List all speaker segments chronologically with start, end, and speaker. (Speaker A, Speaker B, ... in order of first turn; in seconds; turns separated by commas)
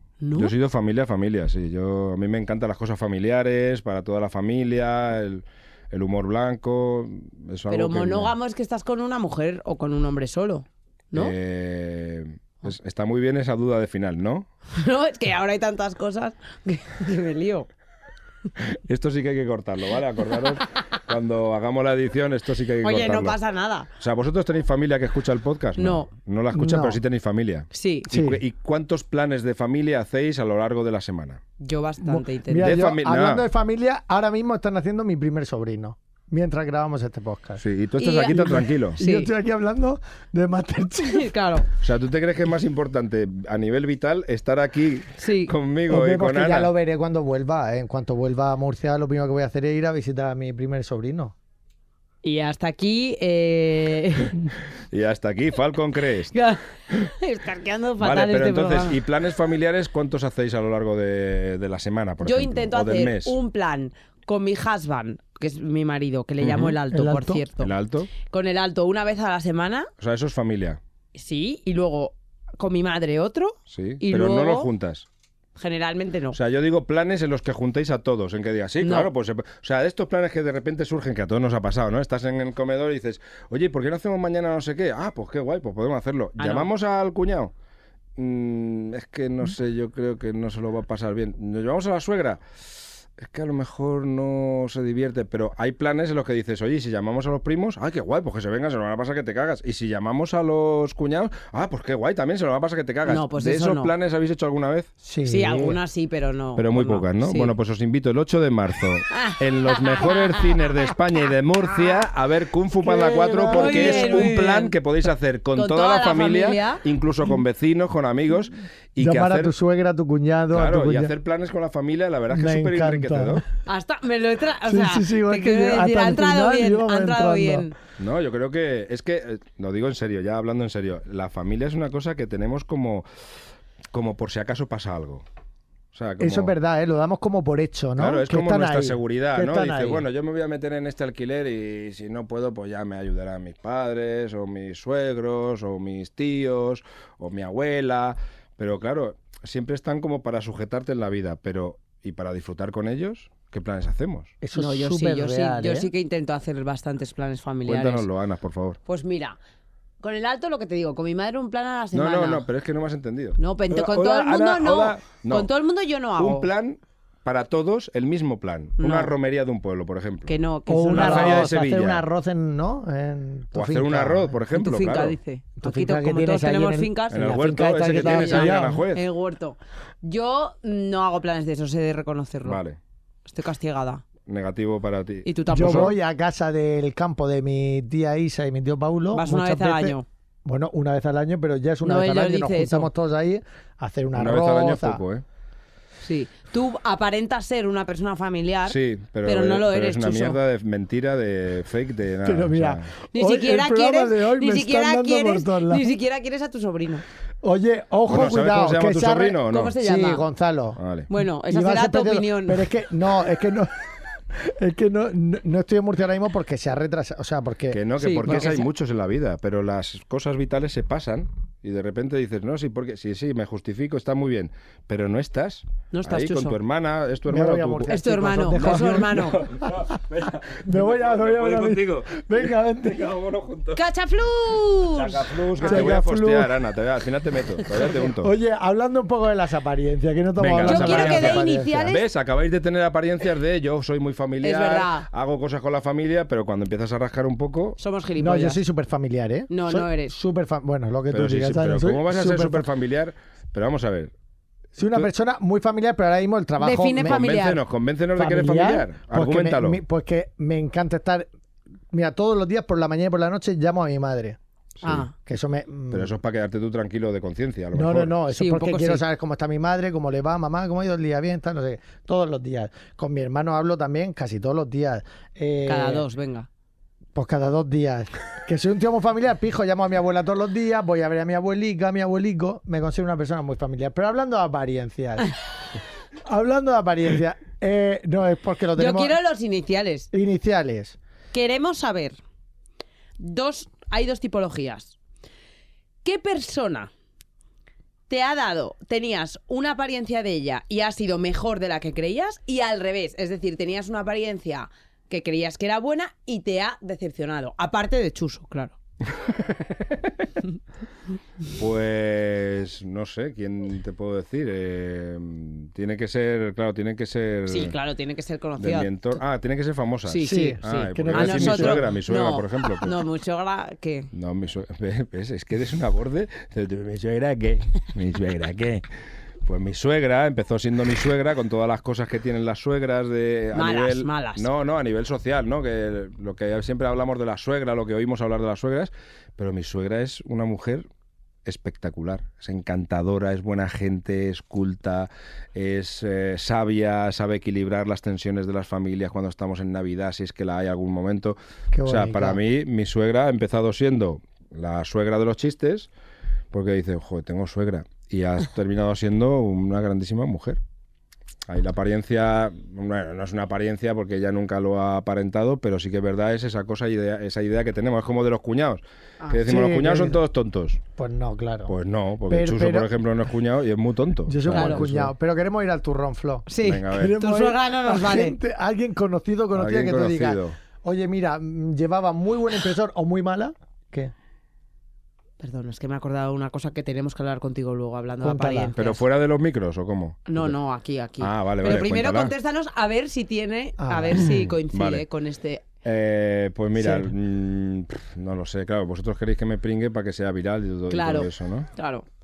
Speaker A: 0.2-0.5, Speaker B: 0.3-8.3, Speaker A: 7.7-11.3, Speaker B: 11.1-14.5, Speaker A: 14.7-17.7, Speaker B: 18.6-23.4, Speaker A: 22.8-23.9, Speaker B: 24.0-31.4, Speaker A: 25.8-26.1, Speaker C: 26.5-27.0, Speaker A: 27.7-28.1, Speaker C: 28.1-28.4, Speaker A: 31.6-32.7, Speaker C: 32.0-37.6, Speaker B: 32.5-33.4, Speaker B: 37.6-39.0, Speaker A: 38.0-39.3, Speaker C: 39.0-41.3, Speaker A: 41.1-41.7, Speaker B: 41.8-46.7, Speaker A: 45.2-45.5, Speaker C: 45.9-51.3, Speaker A: 52.2-54.4, Speaker B: 54.9-56.4, Speaker A: 56.3-59.0, Speaker B: 58.0-63.4, Speaker A: 62.2-67.7, Speaker B: 66.4-66.8, Speaker C: 66.9-67.4, Speaker B: 67.6-68.1, Speaker A: 68.2-69.9, Speaker B: 70.0-70.8, Speaker A: 71.1-74.7, Speaker B: 73.7-75.0, Speaker A: 75.5-76.4, Speaker B: 76.3-87.5, Speaker A: 78.8-79.1, Speaker A: 86.4-86.7, Speaker B: 88.2-92.4, Speaker B: 93.2-104.9, Speaker A: 103.1-103.9, Speaker C: 105.0-105.8, Speaker A: 105.2-107.5, Speaker B: 106.5-119.5, Speaker A: 109.1-110.5, Speaker C: 112.8-114.3, Speaker A: 113.5-114.7, Speaker A: 115.5-116.8, Speaker C: 119.0-121.1, Speaker B: 120.5-123.4, Speaker C: 122.3-123.4, Speaker A: 123.7-127.7, Speaker C: 124.6-127.7, Speaker B: 128.0-133.1, Speaker B: 133.9-135.2, Speaker B: 135.9-136.5, Speaker C: 136.2-140.0, Speaker B: 138.0-154.3, Speaker C: 154.4-155.9, Speaker A: 154.5-158.1, Speaker B: 157.6-158.8, Speaker A: 158.8-159.4, Speaker A: 160.0-162.4, Speaker B: 161.9-165.5, Speaker A: 163.4-166.5, Speaker B: 166.2-170.3, Speaker A: 168.8-169.1, Speaker A: 170.3-171.5, Speaker C: 170.7-174.3, Speaker B: 170.9-172.0, Speaker B: 173.5-175.2, Speaker A: 174.5-182.6, Speaker C: 175.6-178.8, Speaker B: 177.1-179.0, Speaker B: 182.4-182.8, Speaker A: 183.2-184.0, Speaker B: 184.2-185.9, Speaker A: 185.2-185.9, Speaker C: 185.5-195.0, Speaker A: 189.1-190.0, Speaker A: 191.8-192.9, Speaker B: 194.1-195.2, Speaker A: 196.0-200.4, Speaker B: 198.7-202.9, Speaker C: 202.2-205.9, Speaker A: 203.1-207.0, Speaker C: 207.4-210.8, Speaker B: 208.1-209.8, Speaker A: 209.5-210.3, Speaker B: 210.8-211.1, Speaker A: 211.1-212.7, Speaker C: 211.5-218.5, Speaker B: 217.7-227.9, Speaker A: 218.0-218.7, Speaker A: 225.9-226.6, Speaker C: 227.3-229.7, Speaker A: 227.9-229.4, Speaker B: 228.5-233.8, Speaker C: 230.6-233.1, Speaker A: 233.7-235.9, Speaker B: 234.9-238.3, Speaker C: 235.6-236.5, Speaker C: 237.8-241.9, Speaker B: 240.4-247.8, Speaker A: 240.6-242.0, Speaker A: 244.4-245.1, Speaker A: 247.8-248.6, Speaker C: 248.2-252.7, Speaker A: 249.5-250.2, Speaker B: 251.1-254.1, Speaker C: 254.7-257.2, Speaker A: 256.6-257.6, Speaker B: 257.0-259.8, Speaker C: 258.1-261.3, Speaker C: 261.9-264.4, Speaker A: 264.8-265.1, Speaker C: 265.1-266.1, Speaker B: 265.9-268.2, Speaker C: 267.7-276.0, Speaker A: 268.3-269.0, Speaker A: 275.6-276.5, Speaker C: 277.1-285.3, Speaker C: 286.2-289.2, Speaker A: 288.8-290.1, Speaker C: 290.1-291.0, Speaker A: 291.3-292.2, Speaker A: 293.2-294.9, Speaker A: 296.0-296.9, Speaker A: 298.1-308.7, Speaker B: 309.4-309.9, Speaker B: 311.6-317.7, Speaker A: 317.5-319.2, Speaker B: 318.6-323.0, Speaker A: 320.1-324.1, Speaker C: 320.2-321.9, Speaker B: 324.1-328.8, Speaker B: 329.4-340.9, Speaker A: 333.5-334.4, Speaker B: 341.4-355.9, Speaker C: 351.7-352.4, Speaker B: 356.5-360.6, Speaker B: 361.5-370.8, Speaker C: 369.3-370.2, Speaker C: 370.9-371.7, Speaker B: 371.7-375.1, Speaker C: 372.3-372.9, Speaker C: 374.3-384.1, Speaker A: 374.5-374.8, Speaker A: 376.5-378.4, Speaker B: 376.6-377.1, Speaker B: 379.5-380.6, Speaker A: 385.4-389.0, Speaker C: 388.2-388.7, Speaker B: 388.8-390.5, Speaker A: 390.3-395.7, Speaker B: 391.2-392.3, Speaker C: 393.8-394.3, Speaker B: 394.7-395.0, Speaker B: 395.8-401.7, Speaker C: 396.7-397.1, Speaker A: 400.9-402.0